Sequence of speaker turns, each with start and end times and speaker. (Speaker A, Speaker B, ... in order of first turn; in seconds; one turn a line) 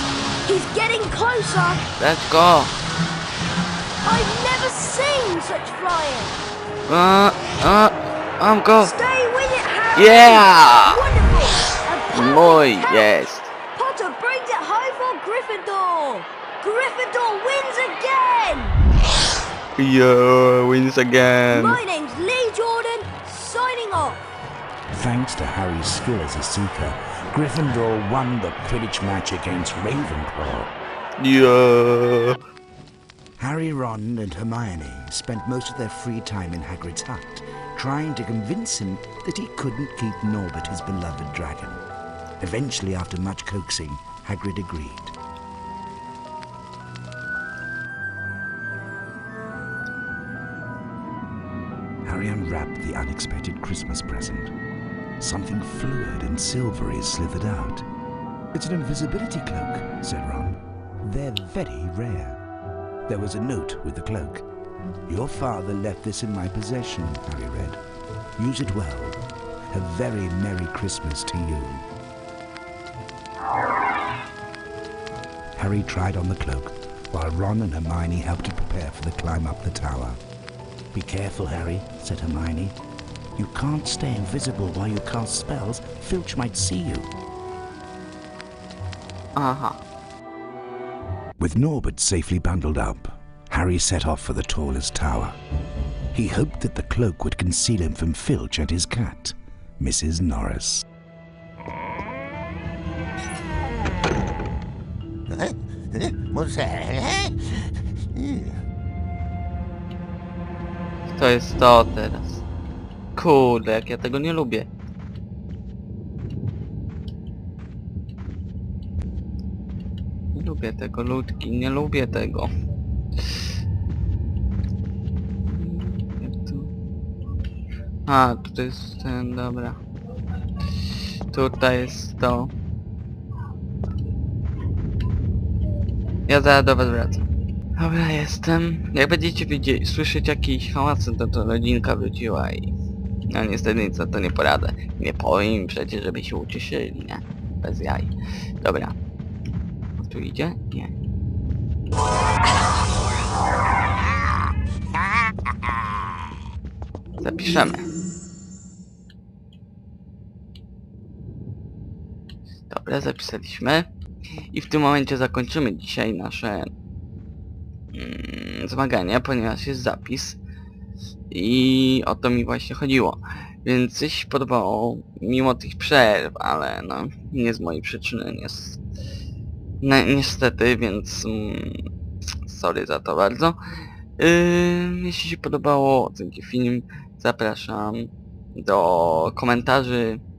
Speaker A: 0.5-1.8
Speaker B: 2.0-2.8
Speaker A: 4.0-6.4
Speaker B: 6.9-8.9
Speaker A: 8.8-13.2
Speaker B: 9.9-11.0
Speaker B: 12.1-13.5
Speaker A: 13.8-18.8
Speaker B: 19.8-21.8
Speaker A: 21.5-24.2
Speaker C: 24.9-30.7
Speaker B: 31.2-32.4
Speaker C: 33.4-41.8
Speaker C: 42.4-45.1
Speaker C: 52.0-54.5
Speaker C: 55.2-57.8
Speaker C: 58.5-62.4
Speaker C: 63.1-64.4
Speaker C: 65.1-67.8
Speaker C: 68.4-71.9
Speaker C: 75.6-80.2
Speaker C: 80.9-82.8
Speaker C: 83.4-87.1
Speaker B: 89.4-89.8
Speaker C: 91.4-95.4
Speaker C: 96.1-100.8
Speaker B: 111.1-112.4
Speaker B: 113.2-114.7
Speaker B: 120.3-122.5
Speaker B: 125.5-126.7
Speaker B: 128.1-129.8
Speaker B: 131.3-132.5
Speaker B: 136.3-137.2
Speaker B: 137.8-142.7
Speaker B: 143.3-148.1
Speaker B: 148.6-148.9
Speaker B: 150.0-150.9
Speaker B: 157.2-157.8
Speaker B: 162.7-163.9
Speaker B: 164.5-166.7
Speaker B: 167.9-170.4
Speaker B: 171.3-178.8
Speaker B: 179.8-181.7
Speaker B: 182.5-183.6
Speaker B: 184.2-190.2